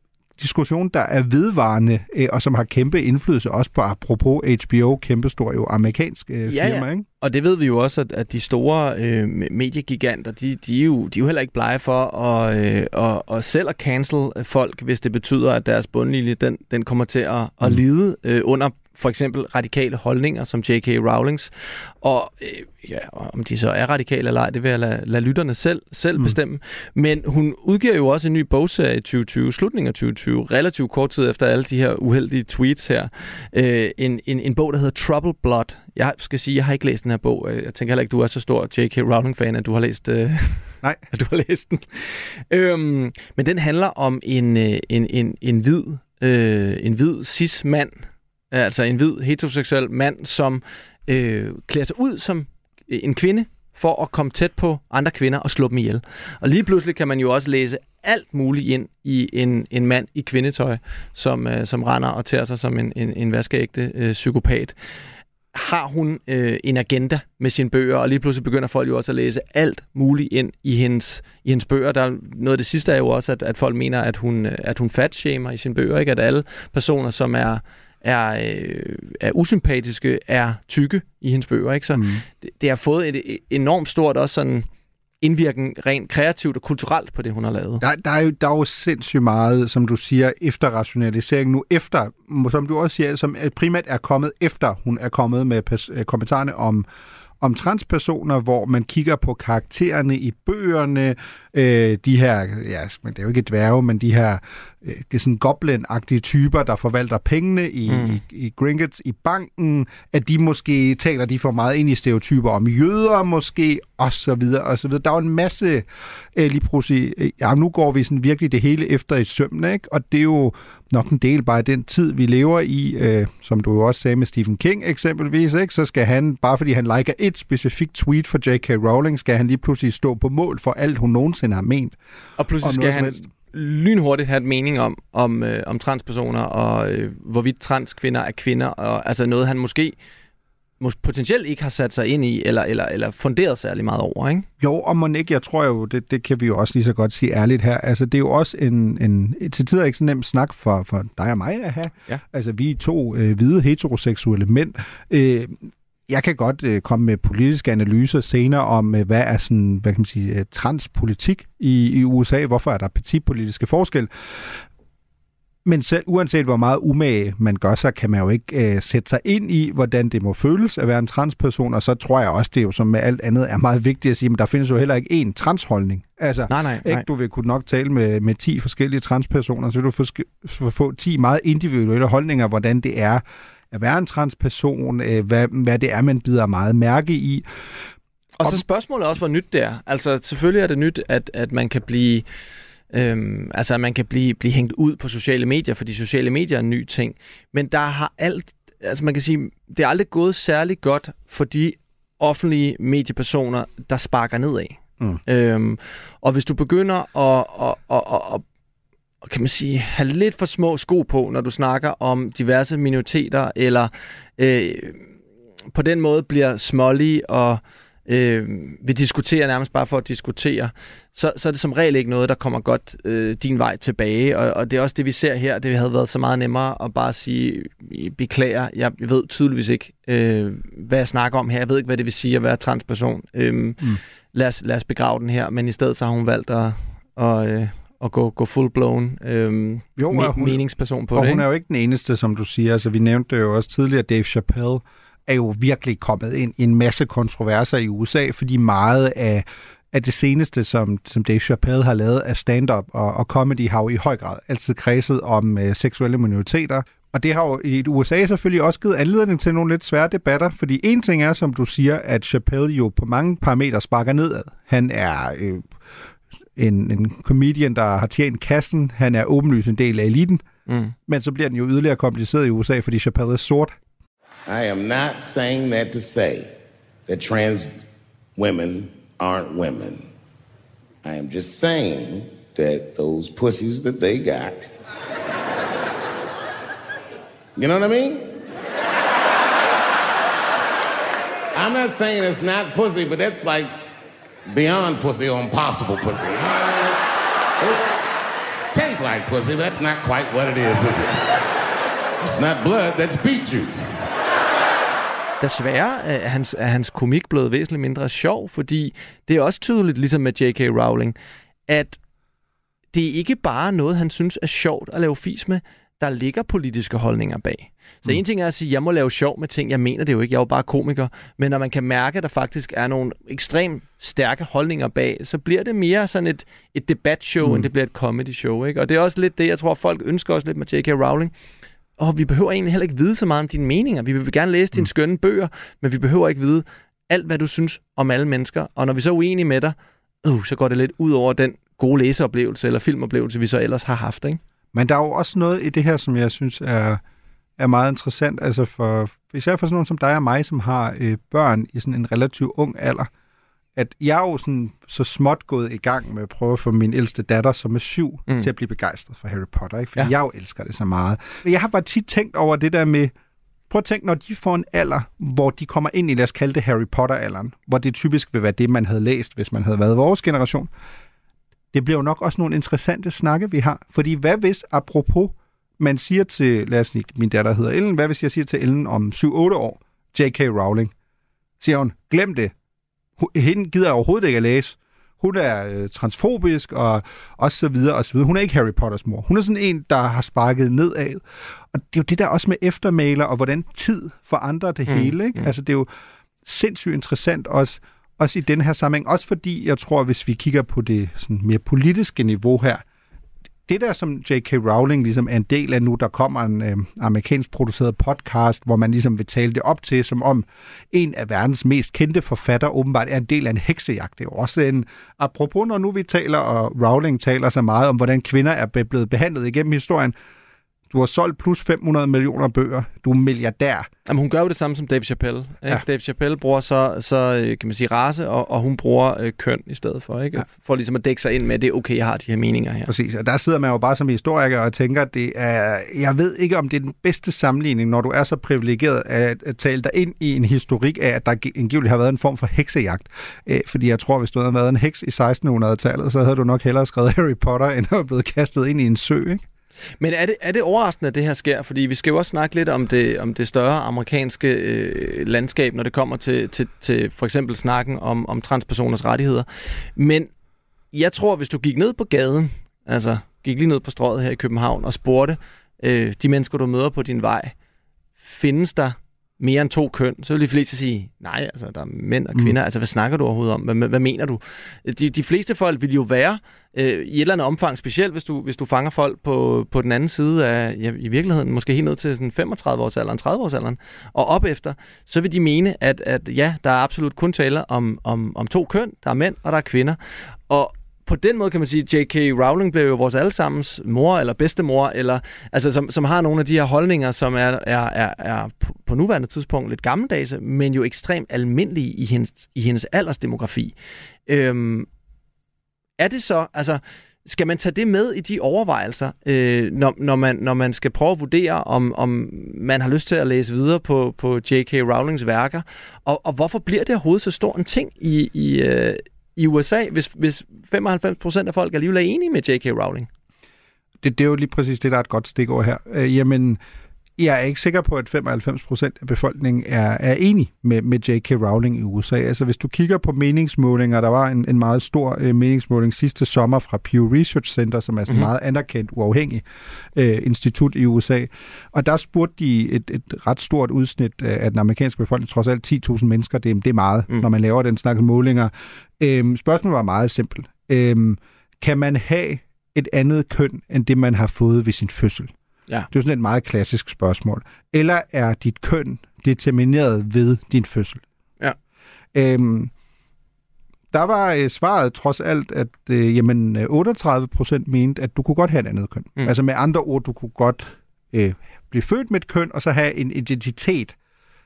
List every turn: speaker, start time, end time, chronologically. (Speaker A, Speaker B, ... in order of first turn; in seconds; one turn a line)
Speaker A: 0.4-7.0
Speaker B: 6.5-64.7
Speaker B: 65.5-84.7
Speaker A: 81.9-82.2
Speaker B: 85.2-87.8
Speaker A: 87.8-96.8
Speaker A: 97.4-131.9
Speaker B: 107.9-108.2
Speaker B: 132.4-140.0
Speaker A: 132.6-133.2
Speaker B: 140.8-144.5
Speaker A: 144.6-164.6
Speaker A: 165.6-187.4
Speaker B: 176.5-177.1
Speaker B: 188.4-192.2
Speaker B: 192.9-208.4
Speaker B: 209.2-215.1
Speaker B: 215.7-241.4
Speaker A: 240.0-240.6
Speaker A: 241.1-265.7
Speaker A: 266.6-270.4
Speaker B: 270.7-270.9
Speaker A: 271.1-273.8
Speaker C: 274.5-276.5
Speaker C: 277.1-280.1
Speaker C: 281.0-284.7
Speaker C: 287.6-288.4
Speaker C: 291.5-293.7
Speaker C: 294.5-297.0
Speaker C: 298.7-301.3
Speaker C: 302.2-304.1
Speaker B: 305.4-311.1
Speaker B: 311.7-312.0
Speaker B: 312.9-331.3
Speaker A: 327.4-327.7
Speaker B: 332.0-344.4
Speaker A: 344.7-347.0
Speaker A: 347.6-353.1
Speaker A: 353.8-363.1
Speaker A: 363.7-370.7
Speaker A: 371.7-380.9
Speaker A: 381.6-382.5
Speaker A: 383.2-395.9
Speaker B: 394.9-395.5
Speaker A: 396.4-402.8
Speaker A: 403.7-420.1
Speaker A: 420.9-423.9
Speaker B: 424.1-432.9
Speaker A: 432.9-449.4
Speaker B: 450.0-460.3
Speaker B: 460.9-467.5
Speaker B: 468.2-503.7
Speaker B: 504.3-504.9
Speaker B: 506.0-523.1
Speaker A: 524.0-526.6
Speaker A: 527.2-539.4
Speaker A: 539.9-555.3
Speaker A: 555.9-561.0
Speaker A: 562.1-562.7
Speaker A: 563.9-574.0